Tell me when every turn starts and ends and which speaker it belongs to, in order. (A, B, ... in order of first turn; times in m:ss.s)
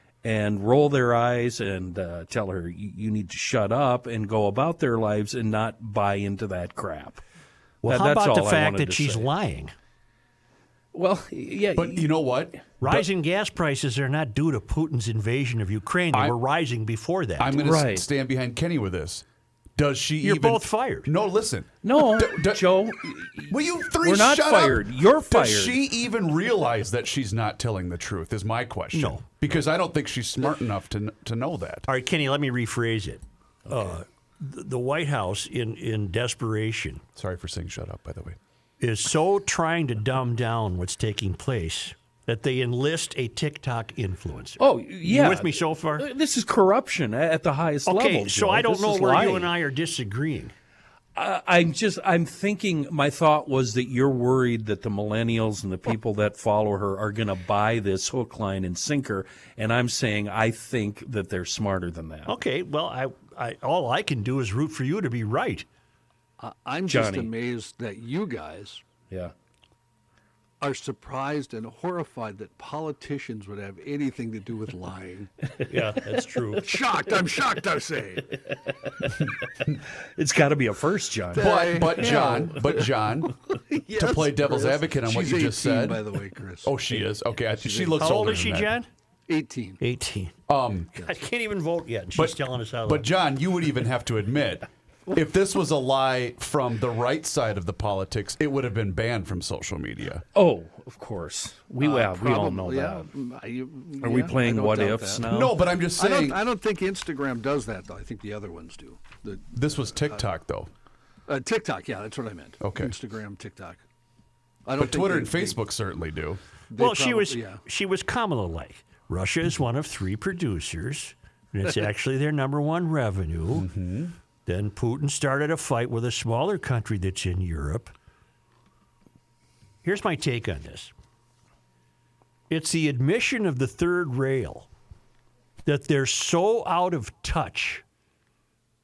0:00.2-0:07.2 A
0:07.8-0:09.3 A
0:07.8-0:09.7 B
0:10.9-0:12.4 A
0:11.8-0:13.0 C
0:12.8-0:17.6 B
0:17.4-0:19.2 C
0:17.6-0:18.1 A
0:19.8-0:22.6 C
0:20.2-0:21.1 B
0:21.8-0:25.8 A
0:23.5-0:31.9 C
0:28.9-0:29.2 B
0:31.9-0:37.0 B
0:37.2-0:38.4 C
0:38.8-0:46.1 B
0:44.6-0:49.5 A
0:47.9-0:50.5 B
0:51.2-1:02.3 A
1:02.3-1:05.7 B
1:06.4-1:08.8 D
1:06.9-1:07.3 A
1:10.6-1:15.3 D
1:15.6-1:16.8 A
1:15.7-1:16.7 B
1:16.6-1:18.3 D
1:18.4-1:19.5 A
1:20.2-1:22.4 A
1:21.3-1:22.9 D
1:21.4-1:23.4 C
1:23.7-1:28.4 D
1:23.9-1:26.0 C
1:26.6-1:28.8 C
1:28.0-1:28.9 B
1:29.3-1:29.8 D
1:29.8-1:30.4 B
1:30.5-1:31.1 C
1:31.0-1:33.1 B
1:32.2-1:40.2 C
1:40.3-1:43.1 A
1:41.8-1:45.3 D
1:44.0-1:45.6 A
1:45.3-1:46.4 C
1:45.9-1:50.2 D
1:49.5-1:50.7 C
1:51.3-1:53.8 D
1:52.6-1:53.0 C
1:54.6-1:55.6 D
1:54.8-1:56.4 C
1:56.7-1:57.6 D
1:56.8-2:03.7 B
2:03.5-2:04.2 C
2:04.5-2:07.9 B
2:09.8-2:10.9 B
2:12.5-2:14.7 B
2:15.7-2:17.8 B